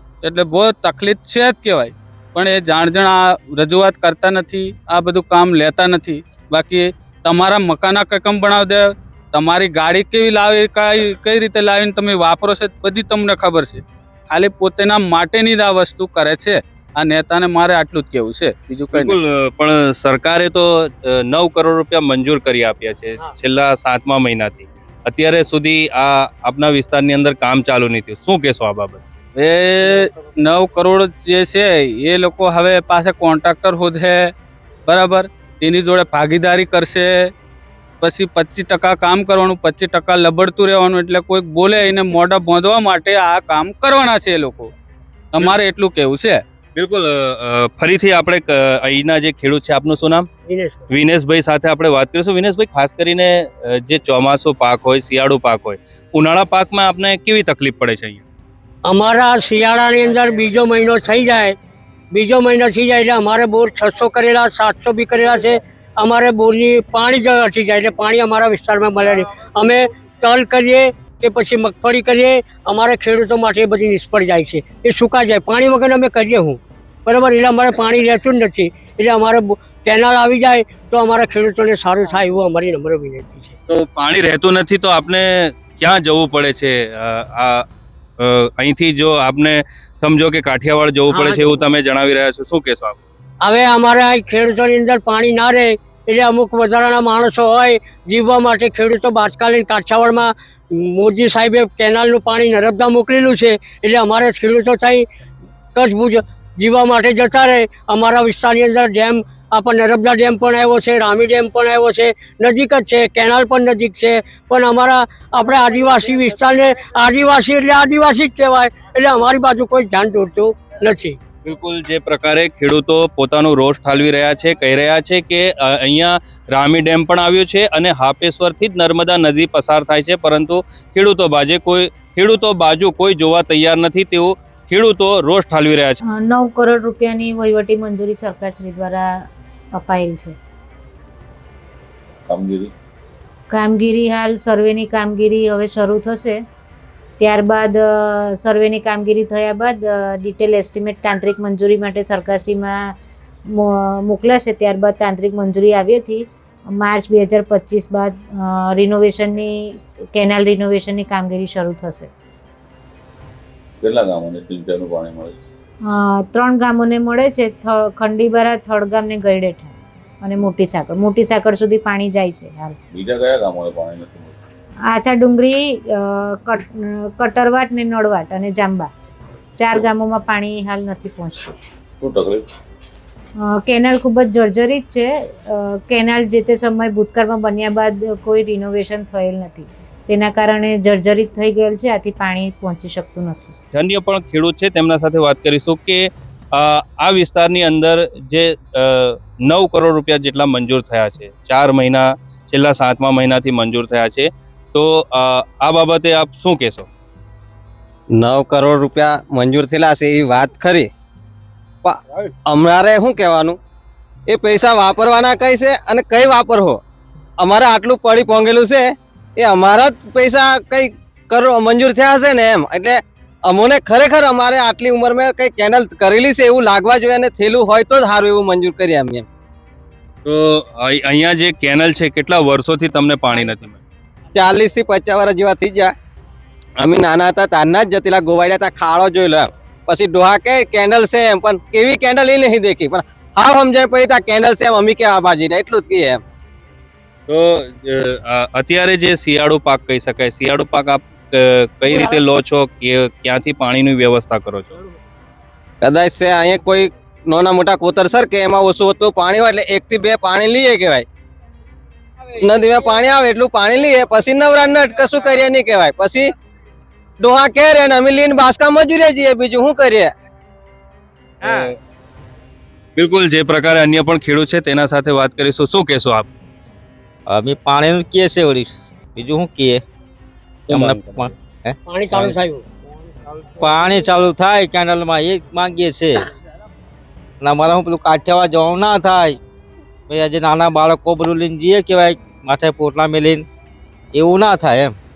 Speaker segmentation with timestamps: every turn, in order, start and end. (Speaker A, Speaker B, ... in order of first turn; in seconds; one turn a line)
Speaker A: 0.2-19.2
Speaker B: 18.9-29.0
Speaker A: 29.4-34.3
Speaker A: 34.9-37.3
Speaker A: 38.0-44.7
Speaker A: 45.4-46.4
Speaker B: 46.8-50.3
Speaker C: 50.5-50.9
Speaker B: 50.9-58.2
Speaker C: 58.8-61.5
Speaker C: 62.1-83.5
Speaker B: 83.7-87.7
Speaker B: 88.2-93.0
Speaker C: 91.1-91.6
Speaker C: 93.4-105.1
Speaker C: 105.8-121.2
Speaker B: 121.5-136.0
Speaker D: 136.2-140.4
Speaker E: 142.3-142.7
Speaker D: 143.5-146.4
Speaker D: 147.2-153.0
Speaker D: 153.5-162.1
Speaker E: 163.8-165.4
Speaker D: 165.9-172.8
Speaker E: 172.9-174.4
Speaker D: 174.9-178.9
Speaker D: 179.6-181.6
Speaker E: 182.0-182.5
Speaker D: 183.5-193.5
Speaker B: 193.7-206.9
Speaker F: 208.2-210.9
Speaker F: 211.8-213.6
Speaker F: 214.3-216.8
Speaker F: 217.4-229.2
Speaker B: 230.2-233.8
Speaker F: 234.3-235.9
Speaker F: 236.8-246.2
Speaker B: 247.3-254.8
Speaker F: 255.8-261.1
Speaker F: 262.4-266.3
Speaker F: 267.2-270.1
Speaker G: 271.4-271.7
Speaker B: 273.0-276.3
Speaker G: 277.3-279.8
Speaker G: 280.7-282.4
Speaker C: 281.9-282.7
Speaker G: 283.4-286.3
Speaker G: 287.4-289.4
Speaker G: 290.1-293.5
Speaker G: 294.1-295.0